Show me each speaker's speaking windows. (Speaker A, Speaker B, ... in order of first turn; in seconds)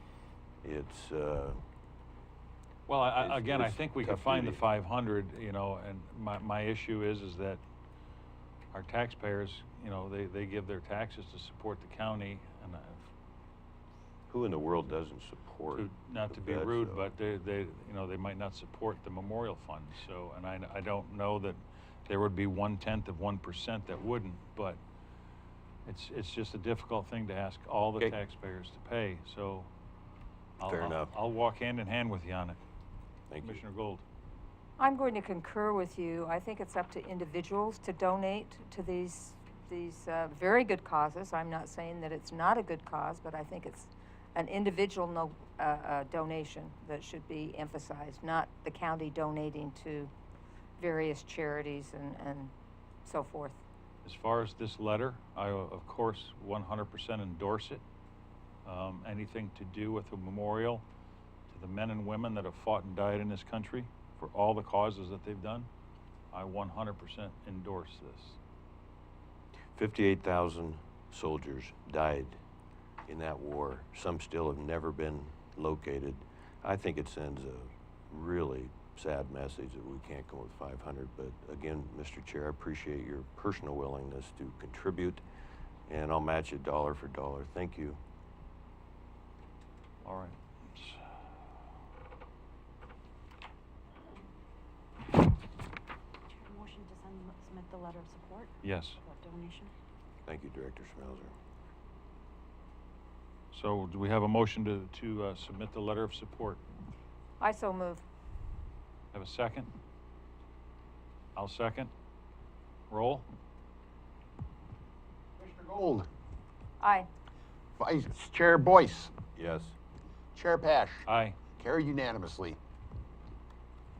Speaker A: 0.6-1.6, 3.2-4.6, 14.3-17.1, 30.6-31.1, 33.3-33.6, 69.7-72.4, 73.1-85.2, 85.9-88.0, 100.2-101.3, 119.3-119.8
Speaker B: 2.9-7.6, 8.7-13.0, 15.7-24.8, 25.8-29.7, 30.6-32.6, 33.4-34.0, 54.0-57.8, 58.6-60.8, 61.5-65.7, 66.3-68.4, 90.0-91.0, 98.6-99.0, 103.5-106.6, 109.1-109.7, 111.3-111.9, 112.9-113.2, 121.0-121.4
Speaker C: 34.8-50.1, 50.8-52.5, 53.0-53.6, 107.4-108.0, 116.8-117.1
Speaker D: 96.3-99.7
Speaker E: 115.4-116.1, 117.8-119.1, 120.3-121.0, 121.6-122.6